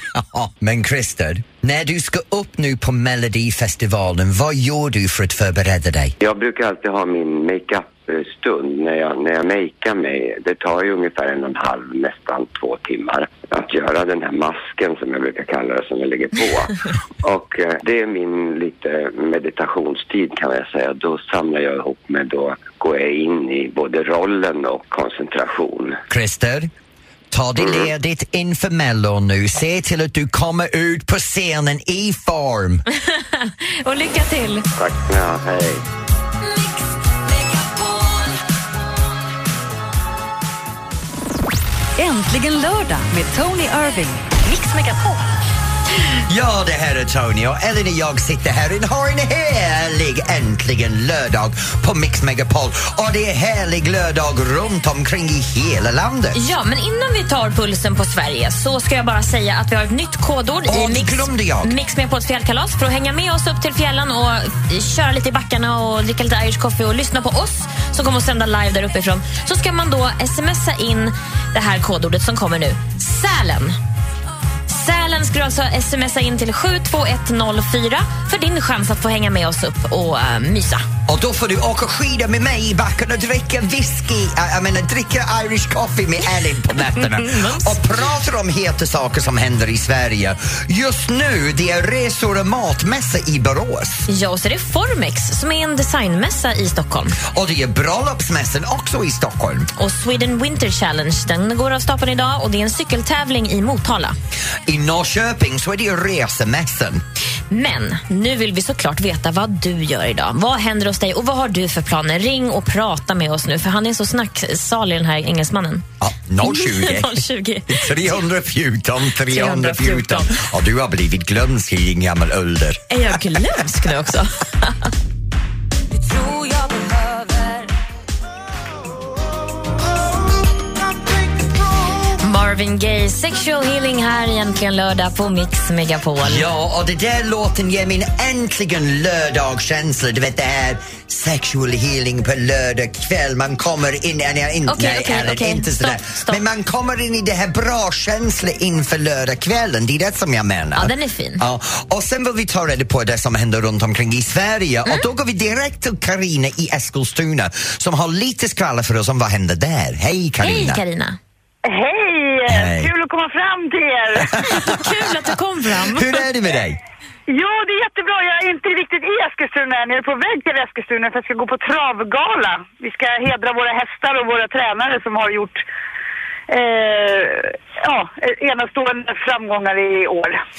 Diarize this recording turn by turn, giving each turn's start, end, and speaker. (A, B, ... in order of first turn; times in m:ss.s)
0:00.1-0:06.2 A
0:06.2-0:26.0 B
0:26.1-0:26.7 A
0:27.3-0:32.8 A
0:27.6-0:27.9 B
0:32.9-0:34.6 C
0:34.8-0:35.8 B
0:42.0-0:44.3 D
0:44.4-0:45.2 C
0:46.3-0:56.4 A
0:56.4-1:13.8 C
1:00.7-1:01.8 A
1:14.7-1:20.8 C
1:21.1-1:34.1 A
1:27.0-1:27.8 C
1:34.1-1:37.2 C
1:37.3-1:39.7 A
1:39.8-1:44.2 C
1:44.7-1:47.0 A
1:47.5-1:55.8 C
1:56.0-2:02.8 A
1:56.4-1:58.2 C
1:59.3-2:00.4 C
2:02.9-2:04.9 C
2:12.2-2:16.5 C
2:16.2-2:40.8 A
2:24.7-2:26.4 C
2:30.8-2:31.4 C
2:40.4-2:41.2 C
2:41.7-2:44.4 E
2:42.5-2:42.9 A
2:44.3-2:45.2 A
2:44.4-2:46.3 C
2:45.8-2:46.8 A
2:47.3-2:55.6 E
2:56.5-3:00.4 E